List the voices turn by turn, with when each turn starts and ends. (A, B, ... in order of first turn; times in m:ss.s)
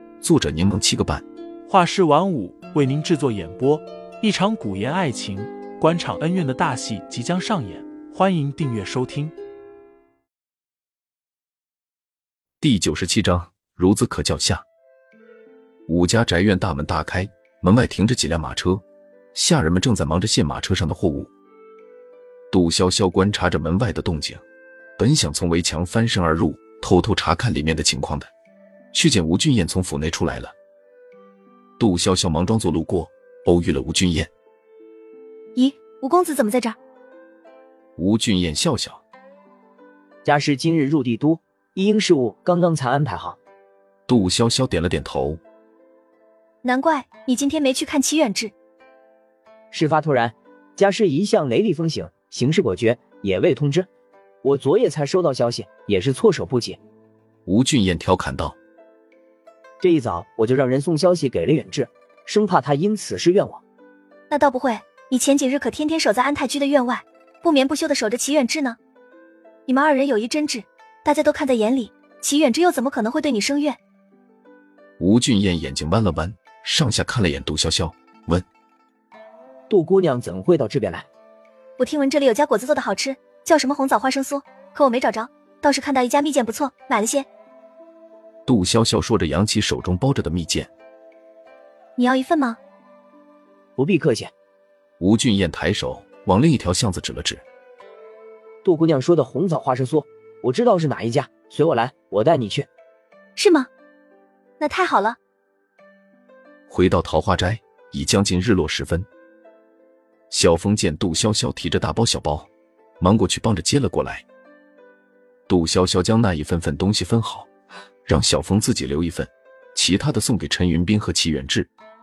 0:00.2-0:01.2 A
0:01.7-0:09.3 B
0:12.6-0:14.6 A
0:15.9-0:18.8 A
0:19.3-0:21.3 A
0:22.5-0:24.4 A
0:25.0-0:28.3 A
0:28.9-0:30.5 A
0:31.8-0:34.3 A
0:35.5-0:36.8 C
0:38.0-0:39.0 A
0:40.2-0:43.4 D
0:44.1-0:45.4 A
0:46.6-0:48.5 C
0:49.7-0:53.9 D
0:54.4-0:56.8 D
0:57.4-0:58.6 A
0:59.8-1:03.6 D
1:04.3-1:08.8 C
1:09.7-1:13.8 C
1:15.0-1:18.4 A
1:19.7-1:21.0 D
1:21.8-1:27.3 C
1:28.4-1:30.7 A
1:32.0-1:32.6 C
1:33.8-1:34.3 D
1:35.0-1:37.4 A
1:38.6-1:42.7 D
1:43.4-1:43.7 C
1:44.6-1:45.2 C
1:46.7-1:49.1 A
1:50.3-1:52.5 A
1:53.0-1:54.2 A
1:55.5-1:57.5 A
1:58.0-2:01.7 A